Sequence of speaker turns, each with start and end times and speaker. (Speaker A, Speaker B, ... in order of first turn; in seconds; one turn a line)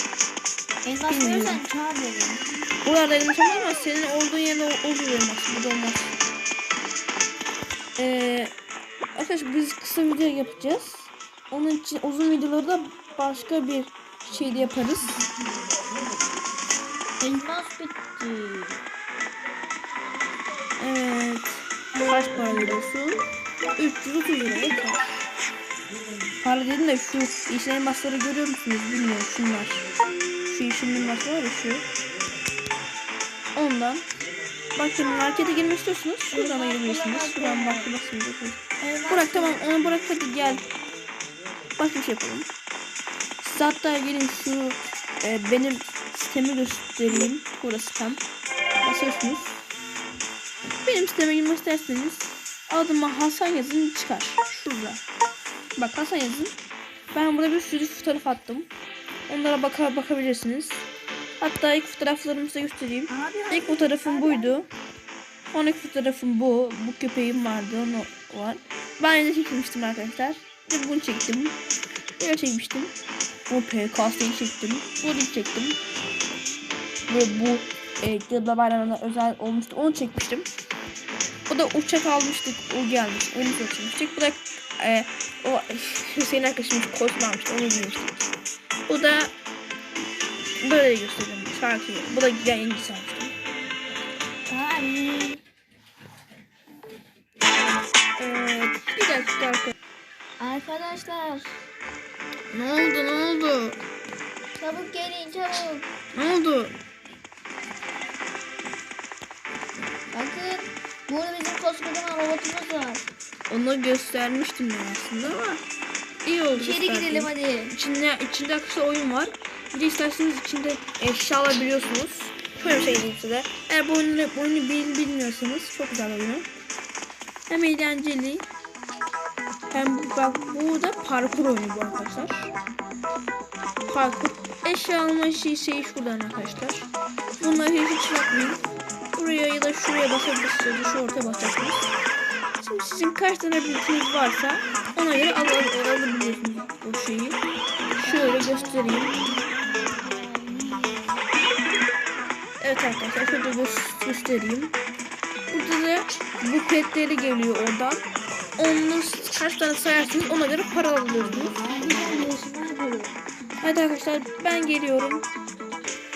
Speaker A: 0.8-2.5
Speaker B: 1.1-1.6
Speaker B: 2.8-6.1
Speaker B: 8.0-8.5
Speaker B: 9.2-15.2
Speaker A: 17.2-18.8
Speaker B: 20.8-23.2
Speaker B: 23.8-25.3
Speaker B: 26.4-29.9
Speaker B: 30.5-31.9
Speaker B: 33.5-34.1
Speaker B: 34.8-40.6
Speaker A: 36.3-37.9
Speaker A: 38.8-39.6
Speaker B: 41.8-42.5
Speaker B: 43.4-48.2
Speaker B: 48.8-49.6
Speaker B: 50.8-55.0
Speaker B: 55.8-56.5
Speaker B: 57.1-58.7
Speaker B: 59.3-60.9
Speaker B: 61.4-64.7
Speaker A: 63.1-64.6
Speaker B: 65.5-71.6
Speaker B: 72.2-72.9
Speaker B: 73.5-75.8
Speaker B: 77.1-80.5
Speaker B: 81.5-88.3
Speaker B: 88.9-89.3
Speaker B: 90.6-93.3
Speaker A: 94.5-95.4
Speaker B: 98.2-99.7
Speaker A: 100.4-101.6
Speaker B: 102.5-103.8
Speaker A: 104.6-105.9
Speaker B: 106.1-106.7
Speaker A: 110.1-113.0
Speaker B: 113.5-115.6
Speaker B: 116.2-126.5
Speaker A: 116.5-117.8
Speaker B: 127.5-128.5
Speaker B: 129.7-132.5
Speaker B: 133.9-138.6
Speaker B: 139.2-141.9
Speaker B: 142.6-147.4
Speaker B: 148.0-149.2
Speaker A: 148.0-151.2
Speaker B: 152.6-154.8
Speaker B: 155.5-158.1
Speaker B: 158.6-161.6
Speaker A: 161.5-163.2
Speaker B: 163.6-165.2